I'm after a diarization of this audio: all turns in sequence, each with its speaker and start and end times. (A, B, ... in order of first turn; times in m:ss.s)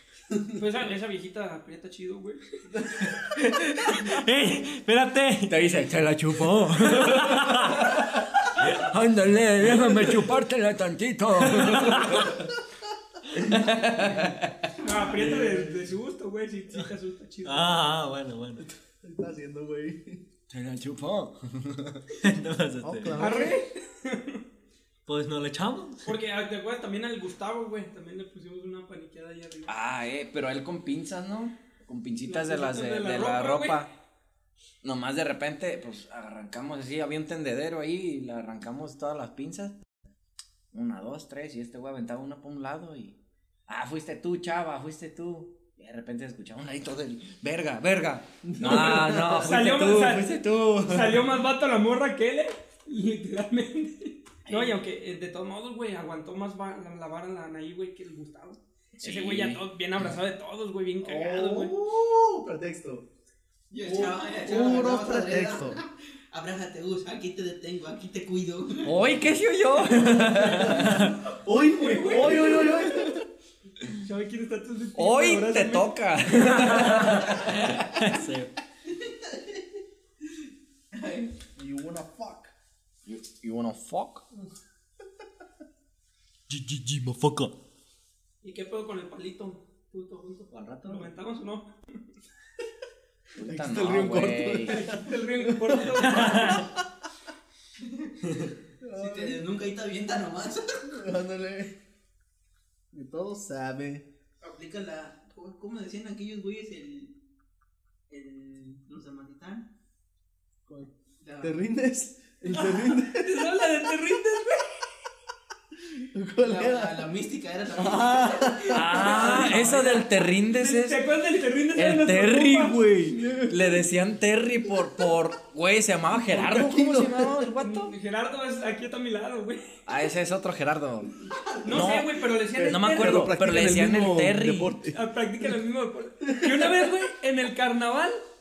0:00.5-0:02.8 A
0:03.1-0:05.7 B
0:05.5-0:12.5 C
0:06.7-0:07.9 B
0:11.4-0:12.2 B
0:13.3-0:14.7 C
0:14.8-0:17.9 A
0:15.2-0:15.8 D
0:17.4-0:18.6 B
0:19.0-0:20.2 D
0:20.5-0:22.0 C
0:22.2-0:23.2 B
0:22.8-0:23.6 D
0:23.2-0:24.4 A
0:25.1-0:26.1 B
0:26.0-0:29.7 A
0:29.7-0:33.9 C
0:32.3-0:33.8 A
0:34.8-0:39.8 C
0:40.7-0:51.1 C
0:48.4-0:51.1 D
0:48.6-1:01.8 A
0:59.0-0:59.6 C
1:01.0-1:03.1 D
1:03.7-1:09.0 E
1:03.8-1:05.8 D
1:08.8-1:11.1 C
1:10.5-1:13.2 D
1:10.8-1:11.1 B
1:11.4-1:12.9 A
1:14.0-1:15.9 A
1:15.0-1:18.2 C
1:16.4-1:18.5 B
1:19.0-1:19.4 E
1:20.9-1:21.3 E
1:21.6-1:22.5 D
1:23.1-1:24.2 C
1:26.5-1:27.6 B
1:28.4-1:31.7 A
1:30.5-1:31.1 B
1:33.4-1:34.8 C
1:33.4-1:36.9 D
1:34.7-1:36.6 A
1:36.0-1:36.6 B
1:38.8-1:39.4 D
1:39.0-1:40.9 E
1:40.8-1:41.8 D
1:42.9-1:44.1 D
1:44.4-1:47.2 E
1:48.1-1:49.7 E
1:51.2-1:51.6 E
1:51.4-1:53.5 D
1:52.5-1:54.7 A
1:56.0-1:57.1 D
1:56.4-1:59.9 E
1:57.8-1:59.1 D
1:58.7-2:01.0 C
1:58.9-2:02.8 A
2:01.8-2:07.9 C
2:03.0-2:03.8 D
2:06.2-2:07.5 D
2:07.6-2:09.6 A
2:09.9-2:11.1 C
2:11.3-2:11.7 E
2:11.6-2:13.4 A
2:11.7-2:14.8 C
2:12.5-2:15.0 D
2:14.9-2:18.2 A
2:16.2-2:16.9 D